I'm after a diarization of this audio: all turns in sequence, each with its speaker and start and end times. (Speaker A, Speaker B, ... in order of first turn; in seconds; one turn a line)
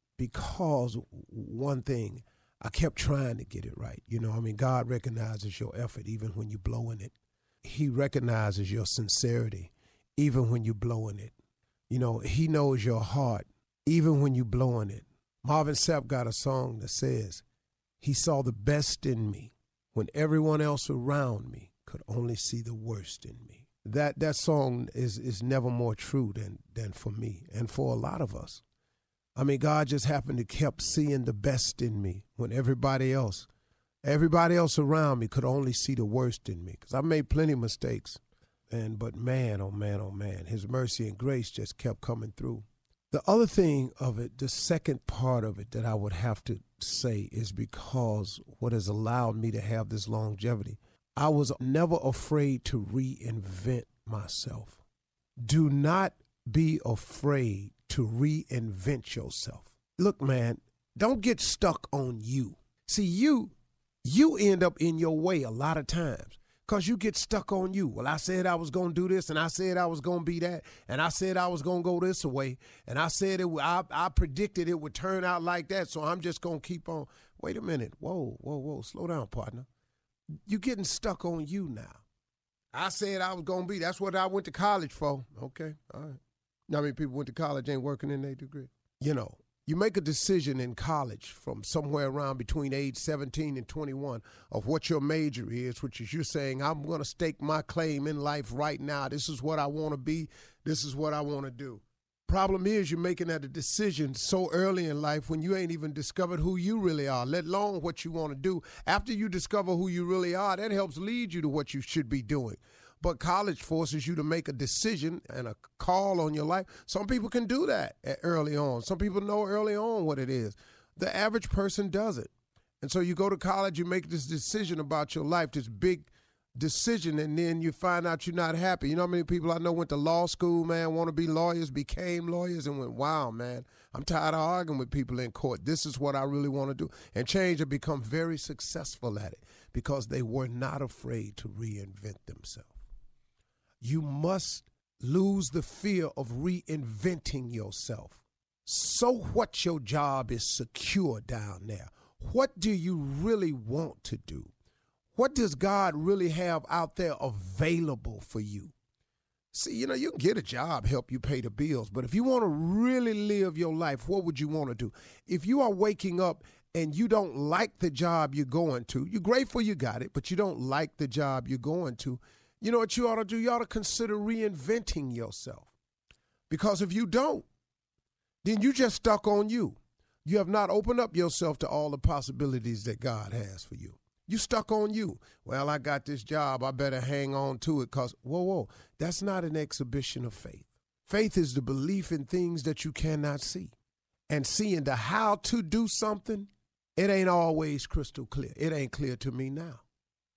Speaker A: 0.2-11.3
Speaker A: 11.9-17.4
Speaker A: 18.0-28.6
Speaker A: 29.4-33.5
Speaker A: 34.0-54.8
Speaker A: 55.4-79.7
Speaker A: 80.5-82.0
Speaker A: 82.7-142.8
Speaker A: 143.8-154.5
Speaker A: 155.2-158.7
Speaker A: 159.5-175.7
Speaker A: 176.5-177.5
Speaker A: 178.4-193.7
Speaker A: 194.3-199.8